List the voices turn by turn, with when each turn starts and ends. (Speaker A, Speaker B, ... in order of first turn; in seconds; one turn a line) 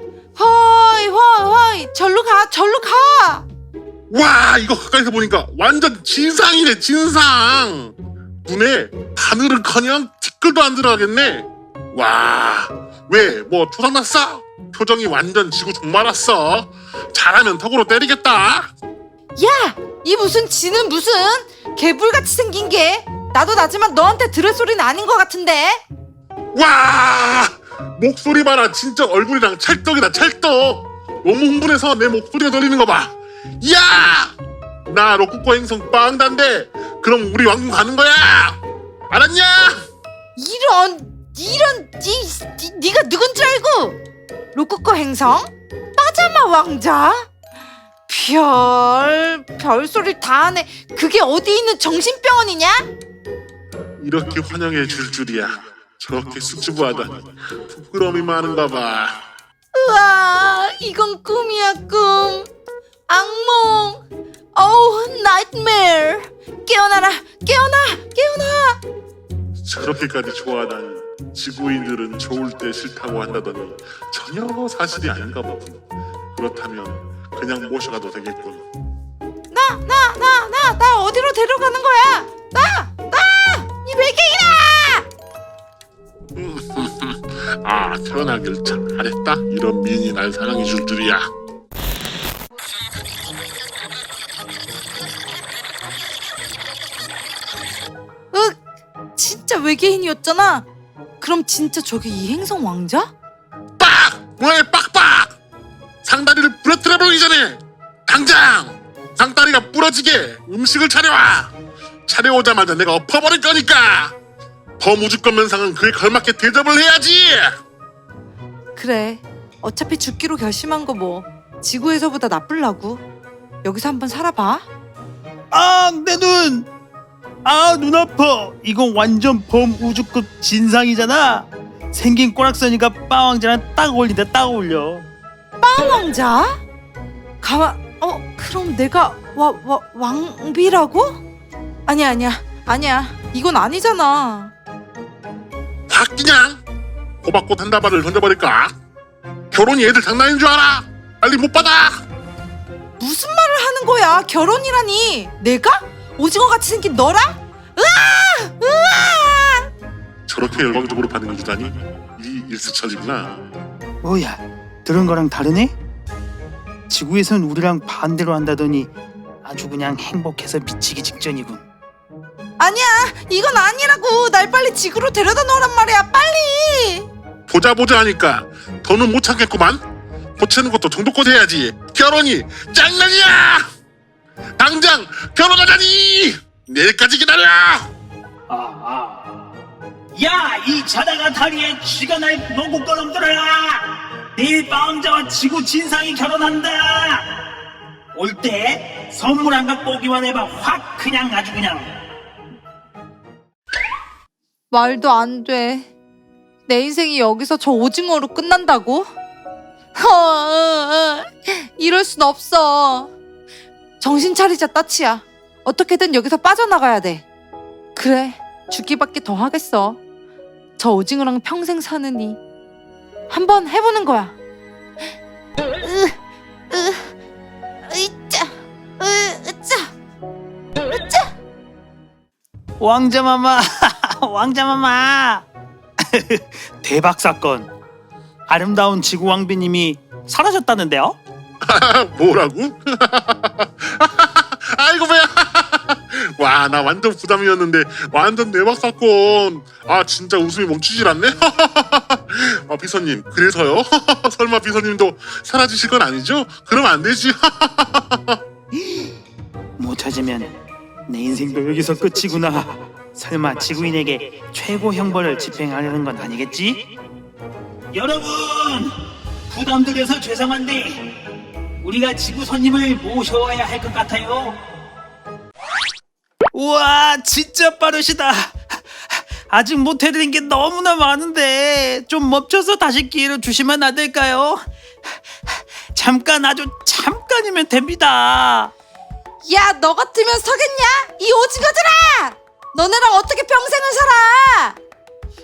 Speaker A: 0.3-3.4
Speaker B: 4.1-7.9
Speaker B: 8.4-18.7
Speaker A: 19.4-25.8
Speaker B: 26.5-34.4
Speaker B: 34.9-38.6
Speaker B: 39.1-39.8
Speaker A: 40.4-44.0
Speaker A: 44.5-47.3
Speaker A: 48.1-52.9
Speaker B: 54.0-59.2
Speaker A: 59.7-62.5
Speaker A: 63.1-68.8
Speaker B: 69.6-75.8
Speaker B: 76.3-78.6
Speaker A: 79.5-85.1
Speaker B: 86.3-91.3
Speaker A: 98.3-98.6
Speaker A: 99.1-100.7
Speaker A: 101.2-103.1
Speaker B: 103.8-105.3
Speaker B: 106.0-111.5
Speaker B: 112.1-114.2
Speaker B: 114.8-117.5
Speaker A: 118.7-123.0
Speaker A: 123.6-124.7
Speaker C: 125.5-126.7
Speaker C: 127.4-135.1
Speaker A: 135.6-136.6
Speaker A: 137.4-141.2
Speaker A: 141.8-144.5
Speaker B: 145.9-146.6
Speaker B: 147.2-148.7
Speaker B: 149.5-152.0
Speaker A: 153.0-159.7
Speaker B: 160.3-163.4
Speaker C: 164.0-165.8
Speaker C: 166.9-168.9
Speaker C: 169.4-171.6
Speaker A: 172.6-177.1
Speaker B: 177.5-179.8
Speaker B: 180.4-183.6
Speaker B: 184.6-187.9
Speaker C: 188.5-189.4
Speaker C: 190.1-197.4
Speaker C: 198.1-201.9
Speaker A: 204.7-205.9
Speaker A: 206.7-209.1
Speaker A: 209.9-213.1
Speaker A: 214.0-217.2
Speaker A: 217.9-220.0
Speaker A: 220.8-222.4
Speaker A: 223.3-224.3
Speaker A: 225.8-226.2
Speaker A: 226.7-227.1
Speaker A: 227.9-229.9
Speaker A: 231.0-231.3
Speaker C: 232.8-235.5
Speaker C: 236.0-237.7
Speaker C: 238.5-241.2
Speaker B: 241.6-258.4
Speaker C: 259.8-260.5
Speaker C: 261.1-266.9
Speaker C: 267.9-268.9
Speaker C: 269.5-271.2
Speaker C: 271.8-274.6
Speaker C: 276.5-288.7
Speaker A: 289.4-294.8